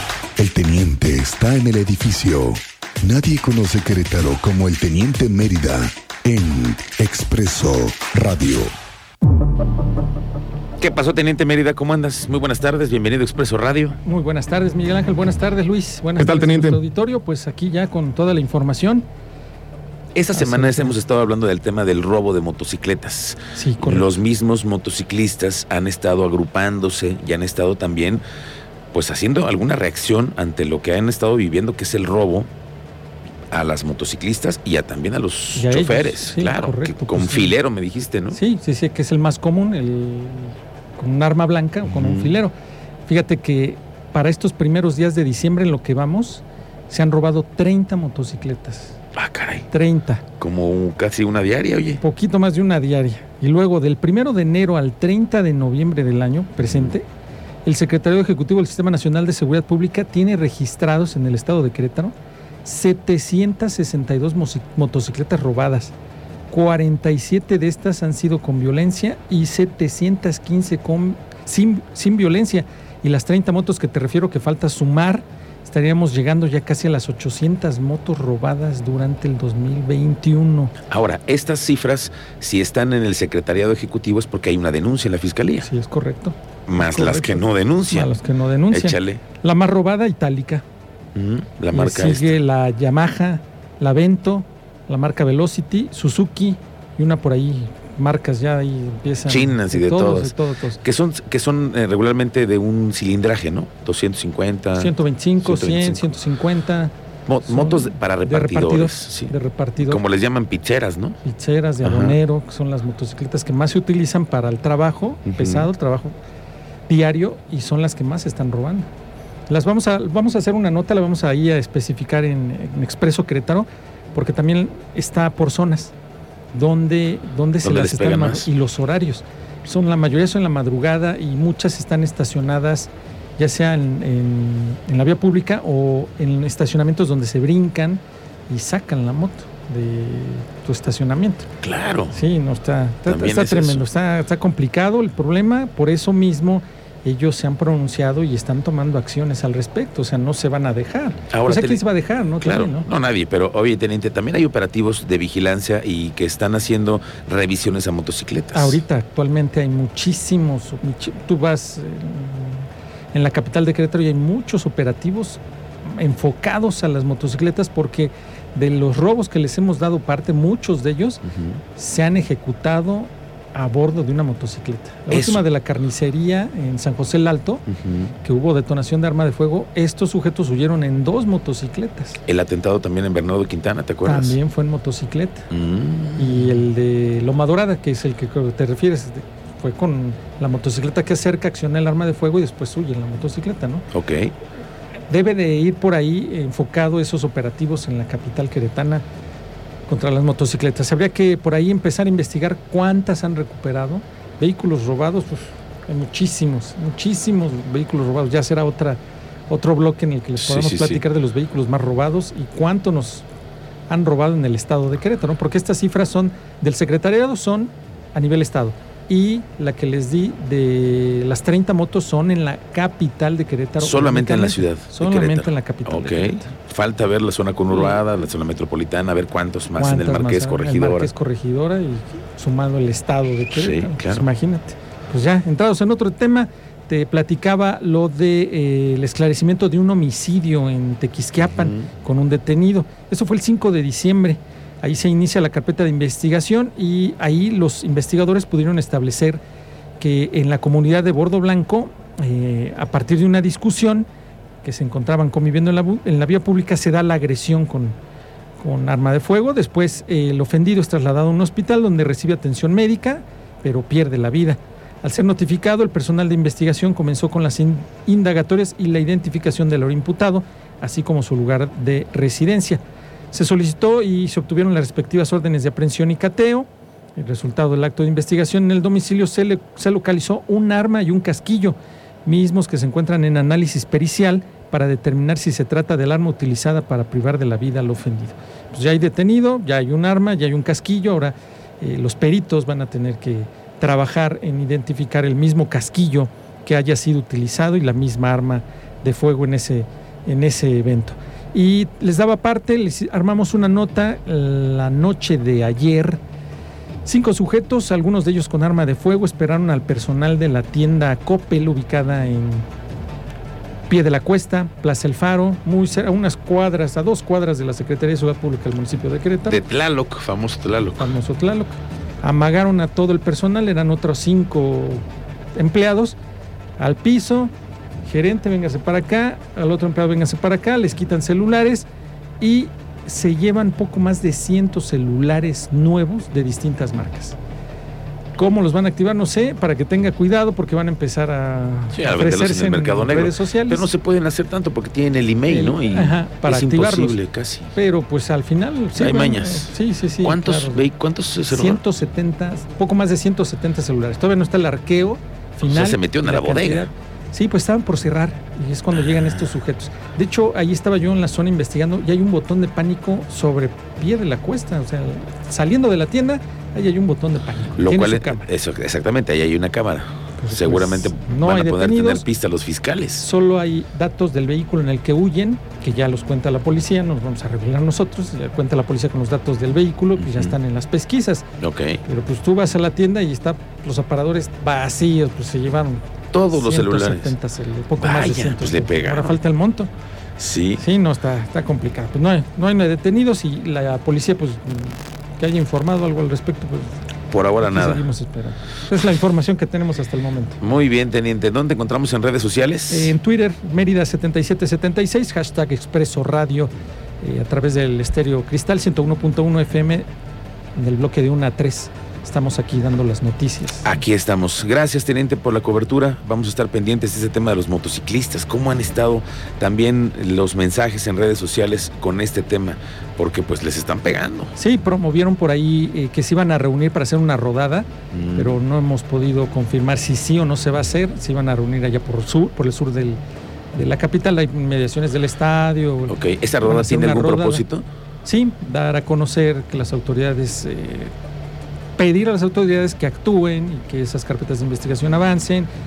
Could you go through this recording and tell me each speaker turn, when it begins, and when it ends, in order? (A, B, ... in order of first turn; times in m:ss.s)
0:00.4-0:08.7 A
0:10.8-0:14.0 B
0:14.0-0:19.1 C
0:16.3-0:16.8 A
0:20.2-0:28.2 B
0:20.4-0:20.9 C
0:23.5-0:24.1 C
0:28.9-0:32.5 B
0:33.5-0:38.4 B
0:35.6-0:37.6 C
0:38.3-0:42.5 C
0:41.9-0:42.4 B
0:43.1-0:49.0 C
0:49.2-0:49.6 B
0:49.7-0:50.2 C
0:50.4-0:52.0 B
0:52.0-0:57.1 C
0:56.6-0:56.9 B
0:57.6-1:05.9 C
1:06.5-1:20.7 C
1:20.9-1:25.7 B
1:25.6-1:30.6 C
1:26.7-1:28.2 B
1:28.7-1:29.2 B
1:31.2-1:32.4 B
1:31.7-1:40.8 C
1:39.3-1:40.3 B
1:40.8-1:46.1 B
1:44.8-1:46.9 C
1:47.3-1:49.3 B
1:47.5-1:50.0 C
1:49.8-1:51.2 B
1:51.2-1:56.2 C
1:51.8-1:52.2 B
1:55.3-1:55.7 B
1:56.9-1:58.9 C
1:59.5-2:05.9 C
2:06.5-2:21.5 C
2:07.6-2:08.5 B
2:21.6-2:22.2 B
2:22.1-2:32.9 C
2:23.1-2:23.8 B
2:31.3-2:31.8 B
2:32.4-2:38.8 B
2:38.5-2:51.2 C
2:51.3-2:51.6 B
2:51.7-2:57.6 C
2:55.1-2:55.4 B
2:57.7-2:58.1 B
2:58.2-3:02.2 C
3:02.3-3:04.4 B
3:04.0-3:05.5 C
3:05.5-3:06.6 B
3:06.2-3:13.9 C
3:13.9-3:14.3 B
3:15.1-3:19.0 C
3:19.9-3:33.3 C
3:30.4-3:31.0 B
3:33.9-3:46.5 C
3:43.8-3:51.1 B
3:47.7-3:48.2 C
3:49.8-4:09.4 C
3:53.5-3:54.2 B
4:01.4-4:01.9 B
4:10.0-4:14.1 C
4:14.6-4:18.0 C
4:18.6-5:06.2 C
5:07.0-5:12.7 C
5:13.9-5:19.6 C
5:19.5-5:21.1 B
5:21.0-5:25.0 C
5:25.6-5:26.2 C
5:26.8-5:27.5 C
5:28.0-5:31.9 C
5:32.4-5:37.4 C
5:38.4-5:43.9 C
5:41.9-5:47.7 B
5:45.5-5:47.2 C
5:47.7-5:50.9 C
5:49.0-5:51.8 B
5:51.5-6:08.5 C
5:55.6-5:56.9 B
5:59.0-5:59.5 B
6:07.8-6:13.3 B
6:10.4-6:12.2 C
6:13.2-6:21.5 C
6:20.2-6:20.6 B
6:21.6-6:22.0 B
6:22.0-6:29.9 C
6:26.3-6:27.4 B
6:28.0-6:29.4 B
6:30.4-6:30.8 B
6:30.8-6:37.0 C
6:37.3-6:38.0 B
6:37.6-6:40.6 C
6:40.6-6:43.1 B
6:42.9-6:50.0 C
6:50.8-6:54.0 C
6:53.8-7:04.5 B
7:04.6-7:13.2 C
7:08.1-7:08.6 B
7:13.7-7:17.6 C
7:16.1-7:17.8 B
7:18.2-7:21.1 C
7:22.0-7:25.7 C